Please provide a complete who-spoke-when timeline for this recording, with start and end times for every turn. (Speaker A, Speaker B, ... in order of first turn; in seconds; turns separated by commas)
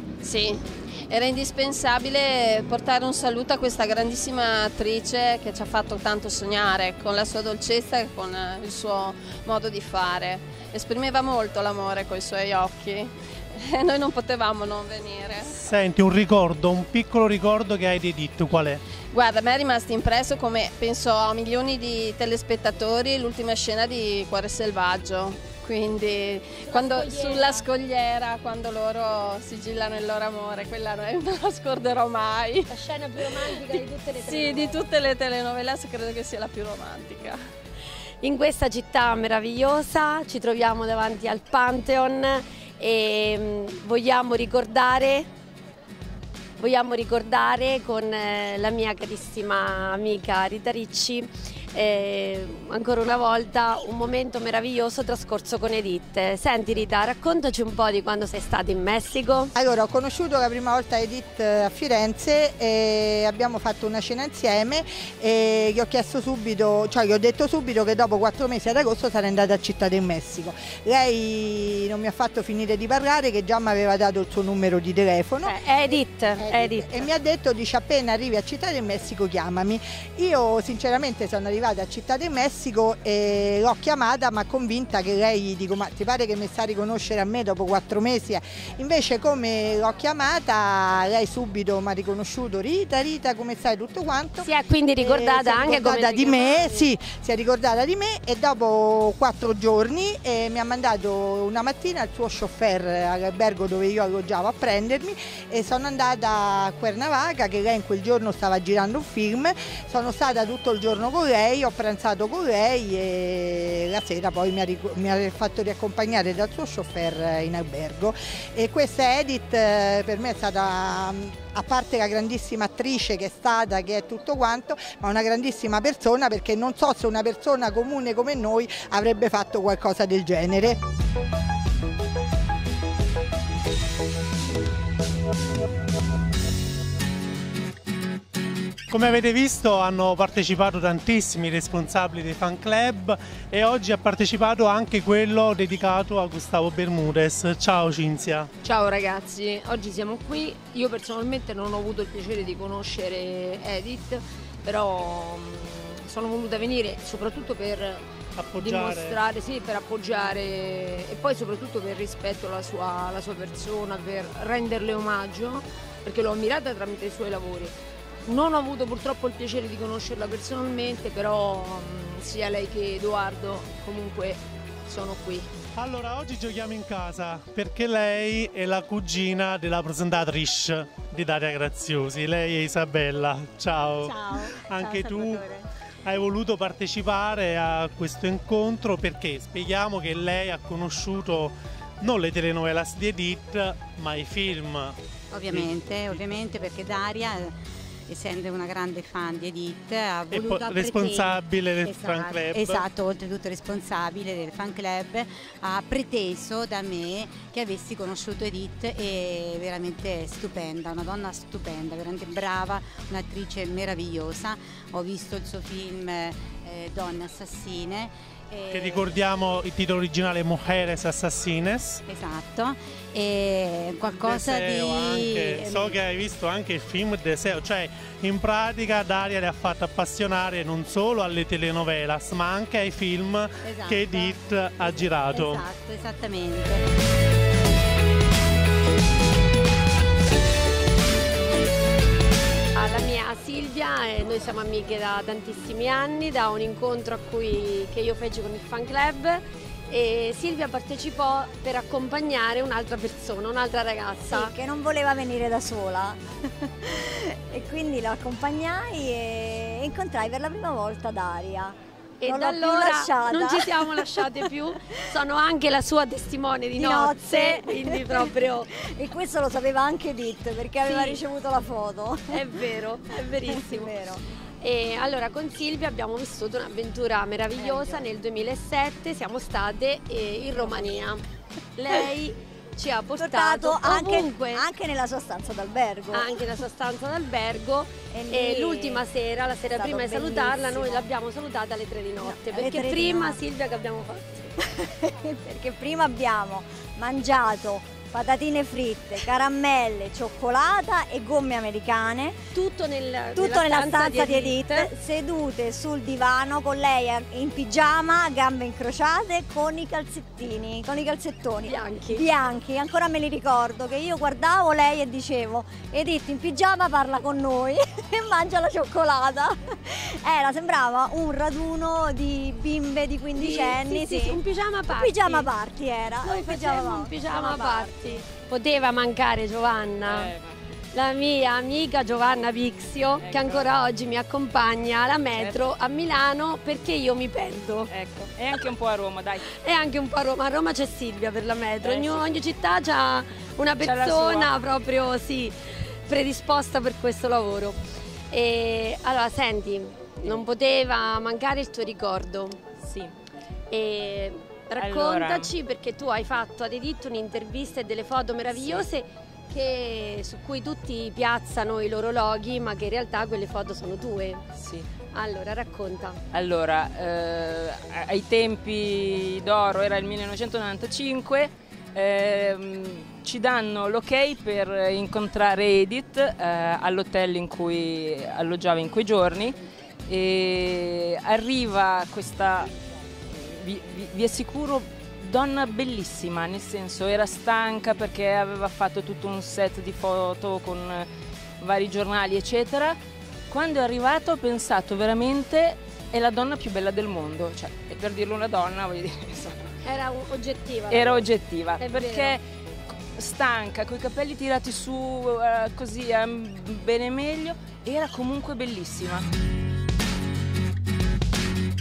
Speaker A: 0.2-15.5, Speaker B: 15.5-18.8, Speaker A: 19.1-32.7, Speaker C: 26.6-27.6, Speaker C: 32.7-34.9, Speaker A: 34.2-37.4, Speaker C: 38.2-45.3, Speaker C: 46.6-59.5, Speaker D: 59.6-94.5, Speaker C: 75.4-77.1, Speaker C: 94.4-96.9, Speaker D: 95.0-130.8, Speaker B: 138.9-148.5, Speaker E: 148.6-158.0, Speaker B: 158.4-159.2, Speaker E: 158.6-167.7, Speaker E: 168.3-175.5, Speaker B: 175.8-185.5, Speaker F: 184.1-185.4, Speaker B: 186.1-195.0, Speaker G: 195.3-219.1, Speaker B: 195.5-196.2, Speaker B: 200.3-202.8, Speaker B: 218.7-222.0, Speaker G: 222.1-226.0, Speaker B: 224.1-235.7, Speaker G: 233.6-236.8, Speaker C: 242.8-254.5, Speaker F: 254.3-264.1, Speaker C: 262.2-268.7, Speaker F: 266.8-272.4, Speaker C: 270.8-271.2, Speaker C: 272.3-273.9, Speaker F: 273.5-274.2, Speaker C: 274.6-281.2, Speaker F: 277.6-278.0, Speaker C: 281.8-284.6, Speaker F: 283.2-286.4, Speaker C: 286.1-294.6, Speaker F: 288.1-289.0, Speaker F: 289.7-291.1, Speaker F: 292.2-293.4, Speaker F: 294.7-302.4, Speaker C: 302.5-304.9, Speaker F: 303.4-327.9, Speaker C: 311.6-312.3, Speaker C: 323.4-325.5, Speaker C: 326.2-330.3, Speaker H: 330.1-330.6, Speaker C: 330.9-337.9, Speaker H: 333.2-333.7, Speaker H: 335.4-335.7, Speaker H: 337.9-339.5, Speaker C: 339.5-347.8, Speaker H: 341.8-342.3, Speaker H: 343.8-344.5, Speaker C: 348.3-352.6, Speaker H: 352.8-353.1, Speaker C: 353.7-364.5, Speaker H: 354.8-355.5, Speaker H: 358.5-358.9, Speaker H: 364.6-364.9, Speaker C: 365.1-366.2, Speaker H: 366.3-379.6, Speaker H: 380.1-382.7, Speaker H: 383.3-391.1, Speaker H: 391.6-393.0, Speaker H: 393.5-399.7, Speaker C: 399.8-402.4, Speaker H: 400.9-402.4, Speaker H: 403.0-409.3